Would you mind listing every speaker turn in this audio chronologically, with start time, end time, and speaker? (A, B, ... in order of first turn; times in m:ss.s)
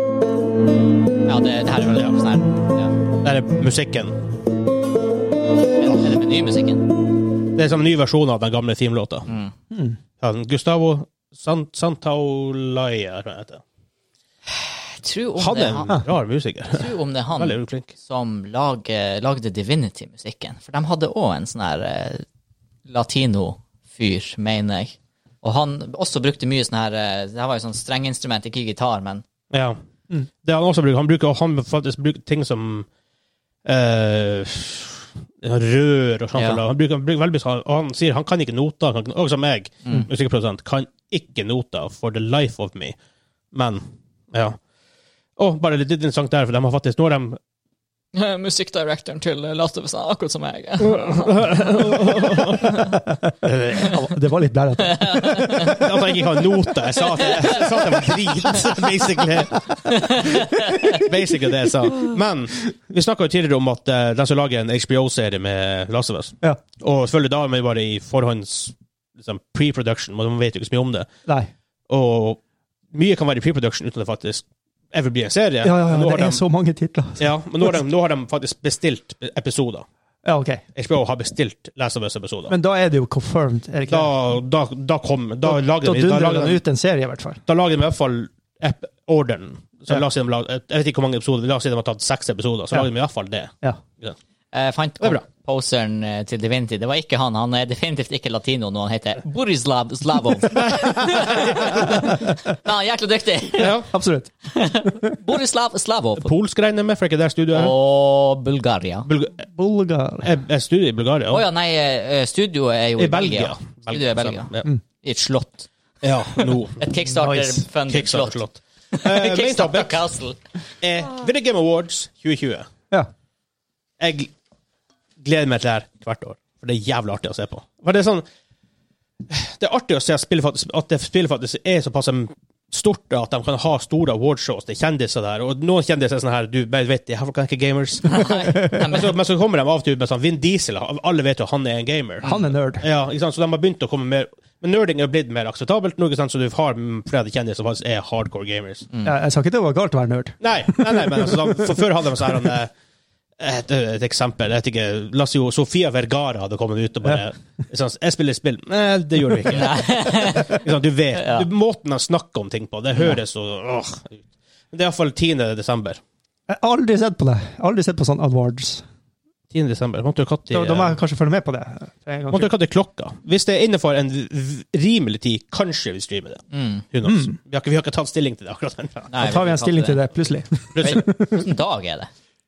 0:01.2-0:02.9 A
0:01.8-0:02.1 B
0:03.2-0:04.2 B
0:05.8-0:06.9 A
0:07.5-0:09.3 B
0:09.3-0:09.5 A
0:09.7-0:10.0 C
0:10.2-0:13.6 B
0:15.0-0:16.0 A
0:15.4-0:17.9 B
0:16.7-0:22.2 A
0:22.9-0:29.2 A
0:29.5-0:29.8 B
0:30.4-0:32.9 B
0:33.6-0:43.0 B
0:36.3-0:36.6 A
0:43.5-0:44.6 B
0:45.4-0:47.4 B
0:48.1-0:53.0 A
0:50.8-0:52.8 B
0:52.0-0:56.2 C
0:53.4-0:54.1 B
0:54.8-0:55.8 A
0:55.6-1:11.1 B
0:57.2-0:57.9 A
0:59.9-1:01.0 A
1:11.2-1:11.5 C
1:11.9-1:12.4 B
1:12.9-1:16.4 B
1:15.6-1:17.8 C
1:17.2-1:19.8 B
1:20.2-1:20.6 C
1:20.7-1:22.5 B
1:22.5-1:24.1 C
1:23.9-1:26.6 B
1:25.4-1:27.4 C
1:27.4-1:34.2 B
1:34.5-1:43.8 A
1:40.8-1:41.8 B
1:41.6-1:42.4 C
1:43.6-1:43.9 B
1:43.8-1:45.2 C
1:44.5-1:46.3 A
1:46.2-1:47.7 B
1:47.5-1:49.1 A
1:49.0-1:49.4 B
1:49.4-1:50.4 C
1:50.2-1:51.4 B
1:51.3-1:54.5 A
1:53.0-1:54.7 B
1:55.0-1:55.7 A
1:56.0-1:56.8 B
1:56.3-1:58.4 A
1:57.1-1:57.6 C
1:57.9-2:00.0 B
1:58.9-2:00.4 A
2:00.8-2:02.7 B
2:04.0-2:04.3 B
2:05.2-2:08.2 B
2:09.3-2:28.9 B
2:18.0-2:19.1 A
2:18.4-2:18.8 C
2:22.2-2:22.5 A
2:22.2-2:22.8 C
2:29.0-2:32.4 C
2:30.4-2:32.7 B
2:33.4-2:46.0 B
2:39.5-2:40.6 A
2:41.2-2:41.4 A
2:46.5-2:48.8 C
2:49.5-2:51.0 B
2:50.5-2:52.5 C
2:52.3-2:59.1 B
2:56.5-2:56.8 A
2:57.0-2:57.4 C
2:59.1-3:00.1 A
2:59.1-3:01.5 C
3:00.7-3:01.1 B
3:00.8-3:02.1 A